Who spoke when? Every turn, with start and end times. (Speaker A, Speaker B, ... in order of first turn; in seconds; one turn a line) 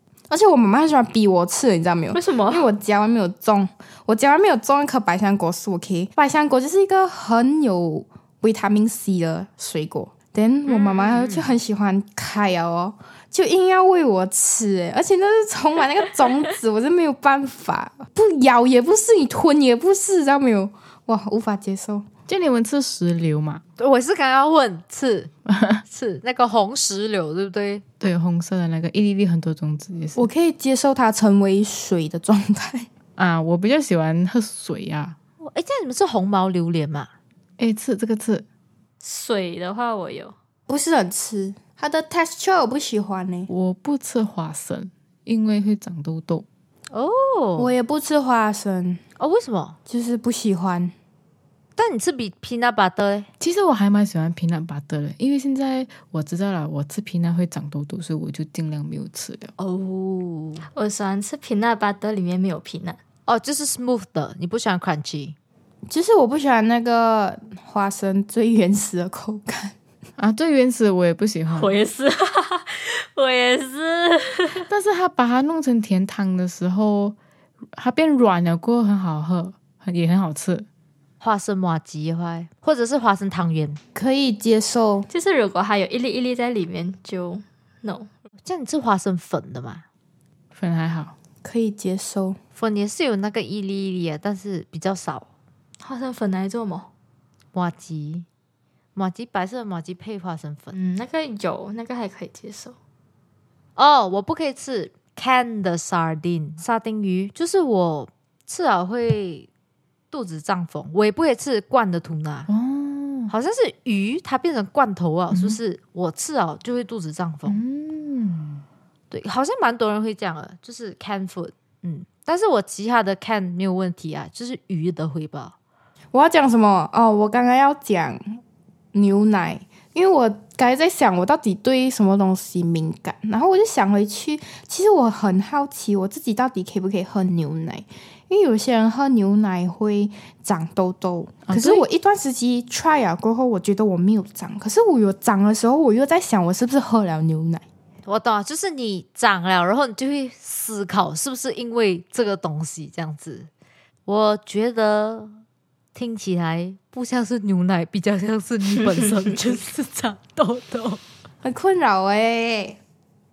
Speaker A: 0.3-22.0
Speaker B: 2.1-2.7
Speaker C: 10.7-11.5
Speaker D: 22.3-23.6
Speaker C: 23.8-25.3
Speaker D: 25.5-25.8
Speaker C: 25.9-27.8
Speaker D: 28.0-30.3
Speaker A: 30.1-32.9
Speaker D: 33.2-35.1
Speaker C: 35.4-37.1
Speaker D: 37.6-38.4
Speaker B: 39.0-40.3
Speaker A: 40.7-43.5
Speaker D: 43.5-46.5
Speaker C: 46.9-47.7
Speaker A: 47.6-49.0
Speaker C: 49.2-49.8
Speaker A: 49.9-50.9
Speaker C: 51.8-53.3
Speaker D: 53.4-59.5
Speaker C: 59.6-60.7
Speaker B: 60.7-63.0
Speaker C: 63.2-65.3
Speaker A: 65.9-69.7
Speaker D: 70.2-71.7
Speaker B: 71.5-74.7
Speaker D: 74.7-77.2
Speaker D: 77.7-80.7
Speaker C: 81.2-83.8
Speaker A: 83.9-85.1
Speaker B: 85.1-88.1
Speaker C: 88.4-89.8
Speaker D: 90.5-91.1
Speaker A: 91.4-92.4
Speaker C: 92.5-95.2
Speaker B: 95.8-96.9
Speaker C: 97.5-98.2
Speaker C: 98.9-100.7
Speaker B: 100.7-102.7
Speaker C: 103.8-109.5
Speaker C: 110.1-112.5
Speaker D: 112.5-113.3
Speaker C: 113.3-117.6
Speaker D: 115.3-115.6
Speaker D: 117.5-118.6
Speaker C: 119.1-125.5
Speaker A: 126.1-128.4
Speaker A: 128.9-147.6
Speaker D: 141.4-141.8
Speaker C: 148.0-153.5
Speaker C: 154.1-155.3
Speaker C: 155.9-161.0
Speaker A: 161.4-162.8